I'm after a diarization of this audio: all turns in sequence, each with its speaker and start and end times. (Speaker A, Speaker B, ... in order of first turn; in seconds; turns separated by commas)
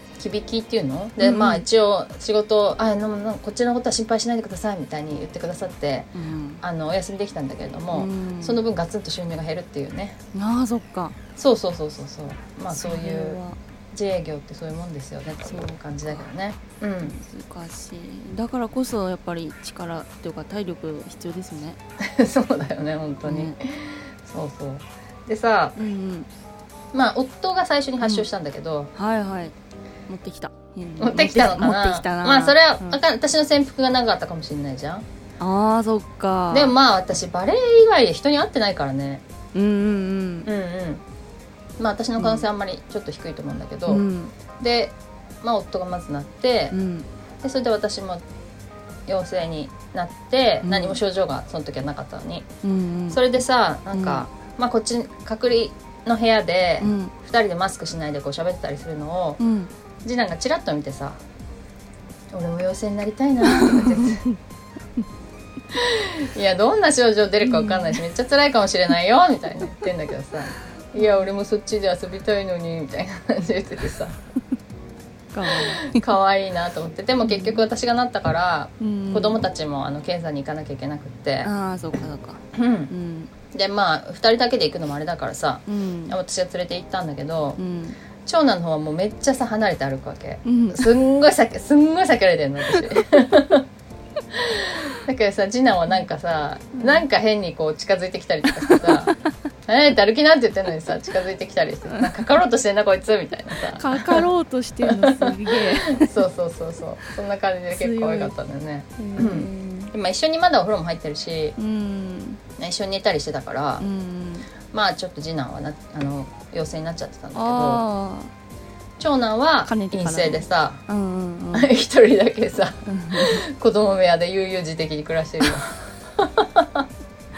Speaker A: 0.2-10.2, Speaker B: 1.2-1.6, Speaker B: 6.1-6.6, Speaker B: 7.9-8.6, Speaker B: 10.3-11.2, Speaker A: 11.3-13.4, Speaker B: 12.7-13.6, Speaker A: 13.9-17.1, Speaker B: 15.4-16.3, Speaker B: 17.0-21.8, Speaker A: 22.0-25.8, Speaker B: 23.2-23.6, Speaker B: 25.8-26.3, Speaker A: 26.9-28.9, Speaker B: 28.0-28.3, Speaker B: 28.9-29.5, Speaker B: 30.1-33.0, Speaker A: 31.0-35.0, Speaker B: 35.4-36.7, Speaker A: 36.5-39.2, Speaker B: 39.5-40.5, Speaker A: 40.5-41.0, Speaker A: 41.8-44.0, Speaker B: 42.2-42.5, Speaker B: 43.9-44.3, Speaker A: 44.6-46.8, Speaker B: 46.7-47.1, Speaker A: 47.4-48.2, Speaker A: 49.1-52.5, Speaker B: 50.6-51.0, Speaker B: 52.6-53.2, Speaker A: 53.1-59.4, Speaker B: 53.9-54.3, Speaker B: 56.8-57.1, Speaker B: 59.4-59.7, Speaker A: 60.0-61.2, Speaker A: 62.3-64.2, Speaker B: 63.4-64.4, Speaker A: 65.7-74.2, Speaker B: 67.4-68.0, Speaker B: 71.0-71.3, Speaker B: 75.3-76.1, Speaker A: 75.5-81.5, Speaker B: 77.2-77.7, Speaker B: 78.8-79.5, Speaker B: 81.4-83.3, Speaker A: 82.5-82.9, Speaker A: 83.5-87.6, Speaker B: 85.7-86.2, Speaker B: 87.6-88.0, Speaker A: 88.2-93.6, Speaker B: 90.4-90.9, Speaker A: 94.3-99.1, Speaker B: 96.8-97.0, Speaker B: 98.6-99.2, Speaker A: 99.7-104.2, Speaker B: 103.7-106.1, Speaker A: 104.9-111.5, Speaker B: 107.7-108.3, Speaker B: 109.0-109.9, Speaker B: 111.5-112.4, Speaker A: 112.6-113.9, Speaker B: 113.8-114.5, Speaker A: 114.7-117.8, Speaker B: 117.3-118.3, Speaker A: 119.0-120.8, Speaker B: 119.6-121.7, Speaker A: 121.5-126.8, Speaker B: 122.8-123.4